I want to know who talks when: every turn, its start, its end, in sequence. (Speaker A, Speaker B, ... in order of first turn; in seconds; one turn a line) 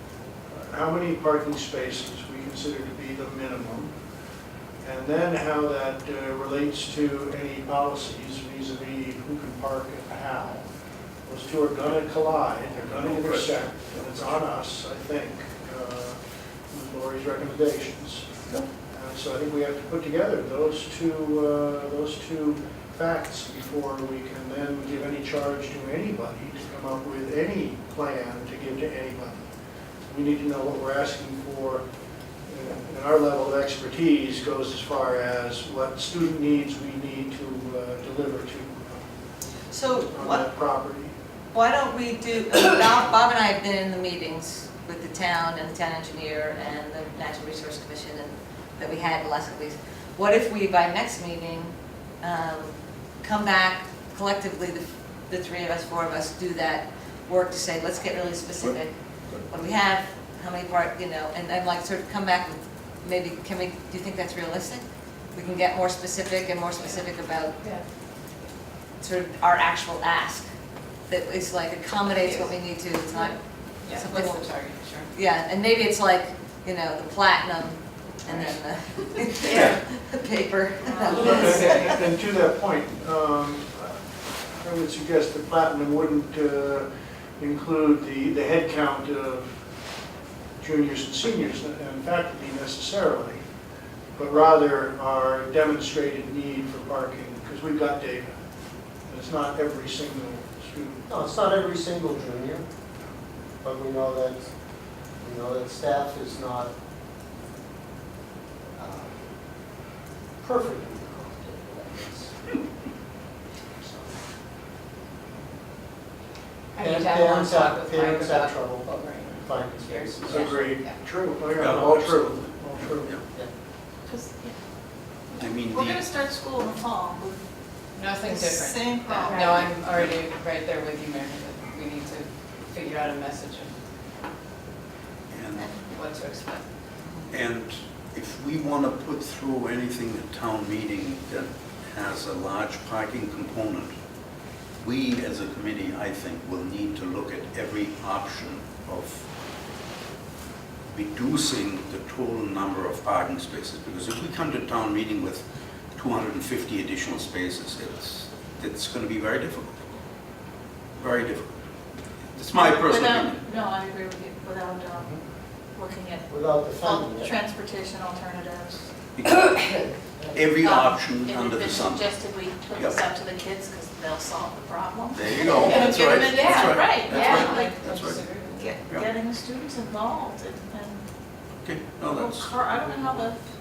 Speaker A: 0.5-3.9
Speaker A: 4.8-10.7
Speaker A: 11.3-16.2
Speaker B: 12.8-14.4
Speaker A: 16.7-18.4
Speaker A: 18.9-29.5
Speaker A: 30.1-31.8
Speaker A: 32.5-39.3
Speaker C: 39.7-40.5
Speaker A: 40.1-41.1
Speaker C: 41.5-58.9
Speaker C: 59.5-67.6
Speaker C: 69.0-70.5
Speaker C: 71.1-74.5
Speaker D: 72.1-72.5
Speaker D: 73.2-75.1
Speaker C: 75.1-82.0
Speaker E: 80.9-81.7
Speaker A: 81.1-86.9
Speaker D: 81.2-81.8
Speaker A: 87.4-89.5
Speaker A: 90.6-93.4
Speaker A: 94.2-98.3
Speaker A: 99.1-101.0
Speaker F: 101.1-102.6
Speaker F: 103.6-104.5
Speaker F: 105.2-106.7
Speaker F: 108.8-109.2
Speaker F: 110.4-112.4
Speaker F: 113.7-114.2
Speaker D: 116.8-121.0
Speaker F: 116.8-120.7
Speaker A: 120.3-123.2
Speaker B: 121.6-123.2
Speaker E: 124.1-124.6
Speaker B: 125.3-126.1
Speaker E: 125.5-127.4
Speaker D: 128.0-133.7
Speaker E: 128.2-129.8
Speaker B: 129.8-130.2
Speaker B: 135.3-135.8
Speaker D: 135.8-136.6
Speaker B: 137.3-143.9
Speaker B: 144.8-149.3
Speaker B: 150.9-159.9
Speaker B: 161.0-161.6
Speaker B: 162.3-163.4
Speaker E: 162.6-165.2
Speaker E: 165.7-168.9
Speaker F: 166.3-167.3
Speaker B: 169.2-169.8
Speaker F: 169.7-170.4
Speaker B: 170.3-172.1
Speaker E: 170.6-181.0
Speaker B: 172.7-173.0
Speaker B: 175.1-178.2
Speaker D: 175.5-178.7
Speaker B: 181.6-183.1
Speaker E: 182.0-183.4